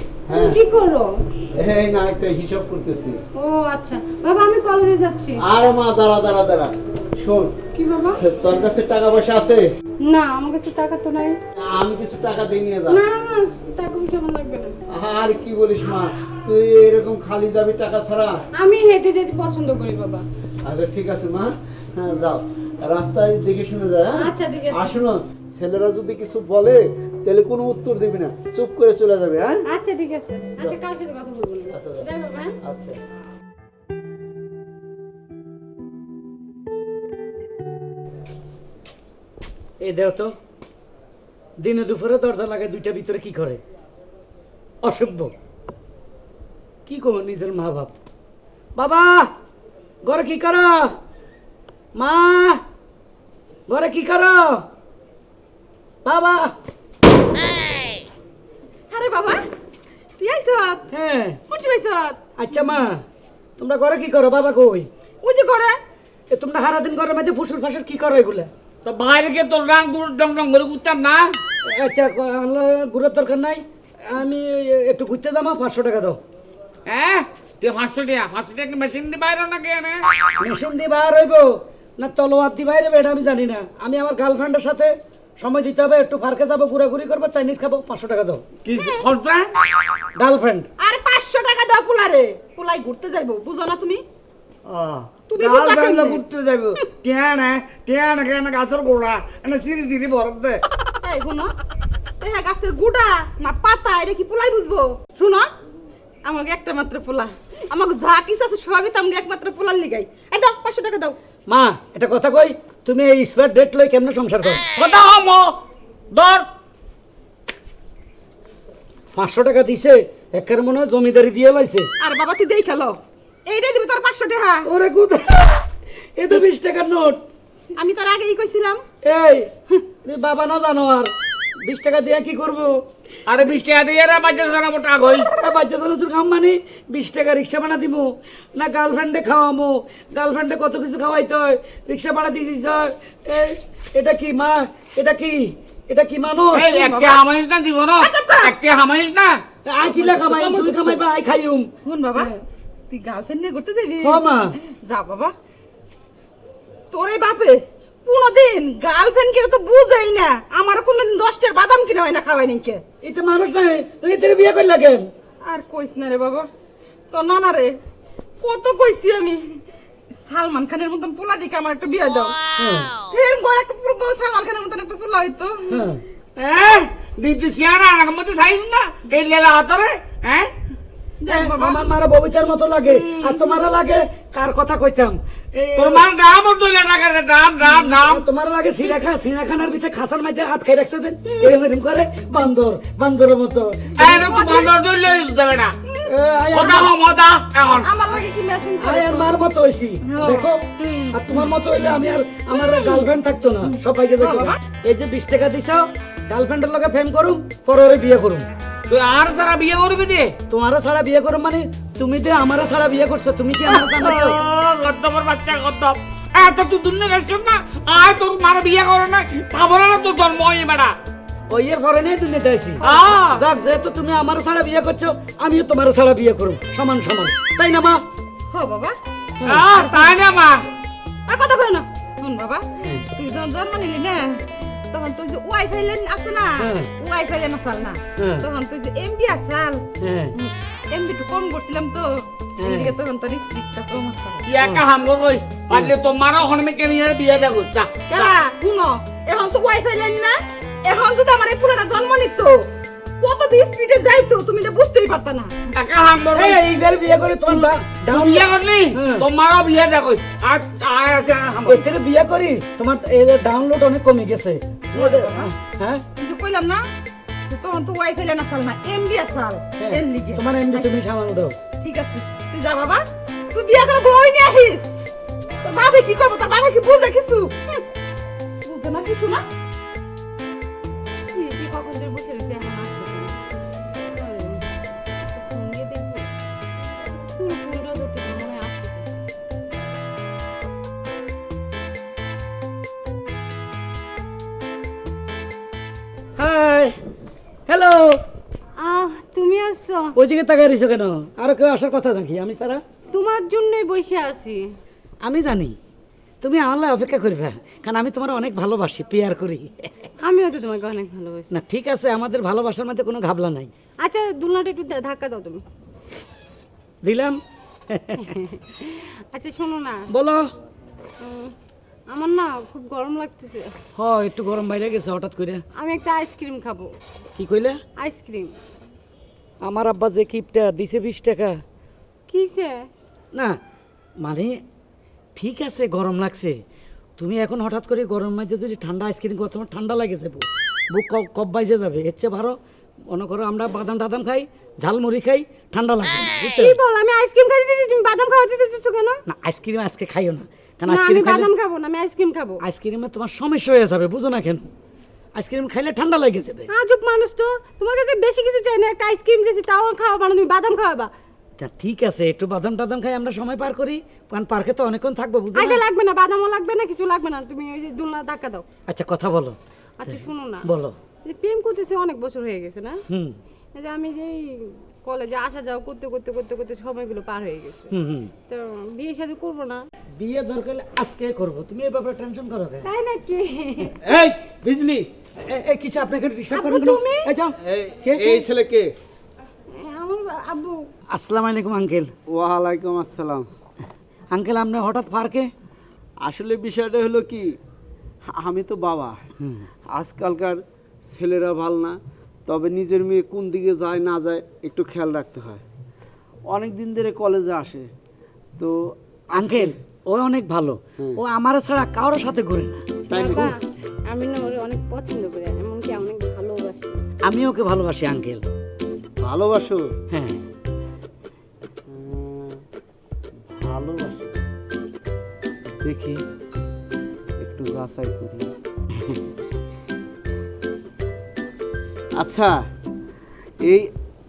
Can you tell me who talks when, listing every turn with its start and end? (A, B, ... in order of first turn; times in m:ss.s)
0:00.3-0:00.6 A
0:00.3-0:01.1 B
0:01.6-0:03.2 A
0:03.4-0:05.4 B
0:05.4-0:07.5 A
0:07.7-0:08.2 B
0:08.2-0:09.7 A
0:10.0-0:11.4 B
0:11.6-0:13.0 A
0:12.9-0:14.7 B
0:14.9-0:18.4 A
0:18.6-0:20.2 B
0:20.6-0:29.6 A
0:24.2-0:24.9 B
0:29.7-0:32.6 B
0:31.7-0:32.0 A
0:32.6-0:33.0 A
0:39.8-0:40.4 C
0:41.6-0:43.6 C
0:44.8-0:45.3 C
0:46.9-0:47.9 C
0:48.8-0:49.3 C
0:50.0-0:50.9 C
0:52.0-0:52.6 C
0:53.7-0:54.6 C
0:56.0-0:56.5 C
0:58.9-0:59.4 D
1:00.2-1:00.9 D
1:00.9-1:01.4 C
1:01.5-1:02.2 D
1:02.4-1:03.0 C
1:03.6-1:04.9 C
1:05.2-1:05.8 D
1:06.3-1:08.5 C
1:08.8-1:11.3 E
1:11.6-1:16.2 C
1:16.9-1:20.0 E
1:20.4-1:21.5 C
1:22.0-1:28.4 C
1:28.6-1:29.5 E
1:28.7-1:29.1 D
1:30.2-1:30.7 C
1:30.8-1:34.0 D
1:34.7-1:40.6 E
1:35.3-1:36.2 D
1:41.0-1:41.5 D
1:42.2-1:45.5 D
1:46.2-1:51.2 D
1:51.5-1:54.7 C
1:54.7-1:55.6 E
1:56.1-1:56.5 E
1:59.1-2:01.9 C
2:02.0-2:04.7 D
2:04.6-2:05.5 C
2:06.2-2:07.2 C
2:07.8-2:08.8 D
2:09.0-2:09.5 C
2:10.0-2:12.7 C
2:13.3-2:15.3 E
2:15.4-2:26.7 C
2:26.6-2:29.4 E
2:26.6-2:27.2 D
2:28.0-2:28.6 D
2:29.7-2:32.4 C
2:29.8-2:31.0 D
2:31.8-2:32.3 D
2:32.9-2:35.3 D
2:34.0-2:34.6 C
2:36.9-2:42.8 D
2:43.0-2:45.1 C
2:45.4-2:46.5 D
2:47.1-2:47.8 D
2:48.4-2:49.6 D
2:50.2-2:52.4 D
2:52.6-2:52.9 C
2:53.0-2:55.8 D
2:55.7-2:56.0 C
2:56.4-3:00.5 E
3:01.2-3:01.8 D
3:01.3-3:06.1 C
3:02.8-3:03.6 D
3:05.8-3:08.2 E
3:07.9-3:14.4 C
3:11.3-3:11.6 D
3:14.0-3:15.8 E
3:14.0-3:14.8 D
3:15.9-3:16.2 D
3:16.1-3:17.0 C
3:16.6-3:17.9 E
3:17.7-3:19.4 D
3:18.8-3:28.5 C
3:20.0-3:21.5 D
3:22.5-3:23.1 D
3:23.6-3:24.6 D
3:28.9-3:30.4 E
3:30.5-3:34.4 C
3:34.0-3:41.0 E
3:41.5-3:48.0 C
3:42.8-3:43.2 D
3:42.9-3:43.4 E
3:48.5-3:49.0 D
3:49.4-3:49.7 C
3:49.5-3:50.6 E
3:49.7-3:50.2 D
3:51.3-4:04.5 D
3:56.6-3:56.9 C
3:58.2-3:58.4 C
4:00.0-4:00.3 C
4:02.6-4:02.9 C
4:04.5-4:08.3 E
4:08.1-4:15.7 D
4:15.8-4:16.4 E
4:16.3-4:19.3 C
4:18.2-4:21.8 E
4:21.7-4:26.0 C
4:24.9-4:25.5 D
4:26.2-4:26.9 D
4:27.5-4:31.0 D
4:29.8-4:31.6 C
4:31.8-4:35.0 D
4:35.6-4:37.8 D
4:38.6-4:39.5 D
4:41.3-4:43.4 B
4:44.0-4:44.6 B
4:45.3-4:46.3 B
4:47.4-4:49.1 B
4:56.4-4:57.0 C
4:57.7-4:58.2 C
4:58.8-5:00.2 B
5:00.2-5:02.8 C
5:03.1-5:04.7 B
5:05.2-5:05.8 C
5:06.4-5:09.8 C
5:10.2-5:11.5 B
5:11.5-5:13.7 C
5:14.0-5:15.6 B
5:17.0-5:17.4 C
5:17.9-5:18.4 C
5:18.2-5:20.1 B
5:20.1-5:20.5 C
5:21.2-5:21.5 B
5:22.1-5:23.8 B
5:24.0-5:25.6 C
5:25.8-5:26.9 B
5:27.4-5:27.8 C
5:28.0-5:28.5 B
5:29.6-5:31.6 C
5:32.3-5:32.9 B
5:34.2-5:34.6 C
5:35.4-5:36.6 C
5:37.2-5:42.6 C
5:43.1-5:46.8 C
5:46.5-5:49.2 B
5:49.3-5:51.5 C
5:50.9-5:52.6 B
5:52.6-5:54.7 C
5:55.4-5:56.7 C
5:56.7-6:01.1 B
6:01.6-6:05.8 C
6:05.5-6:08.6 B
6:08.9-6:11.0 C
6:10.0-6:10.7 B
6:11.2-6:13.0 B
6:13.1-6:13.4 C
6:13.8-6:17.9 B
6:17.9-6:18.3 C
6:18.5-6:19.8 B
6:20.2-6:22.9 C
6:22.8-6:24.0 B
6:24.0-6:25.1 A
6:25.5-6:28.4 C
6:26.5-6:27.3 B
6:27.6-6:28.9 A
6:29.7-6:30.9 B
6:31.1-6:32.1 C
6:32.3-6:33.5 A
6:34.3-6:35.5 C
6:36.2-6:37.6 A
6:38.4-6:39.2 A
6:39.9-6:45.6 A
6:46.5-6:47.9 A
6:48.6-6:49.8 A
6:49.3-6:52.8 C
6:53.1-6:53.5 A
6:53.1-6:53.6 B
6:54.1-6:57.0 B
6:57.2-6:58.5 C
6:59.2-6:59.9 A
7:00.1-7:00.4 C
7:01.9-7:02.6 A
7:03.5-7:04.4 A
7:05.8-7:06.2 A
7:07.4-7:08.5 A
7:12.2-7:12.6 A
7:13.6-7:13.9 A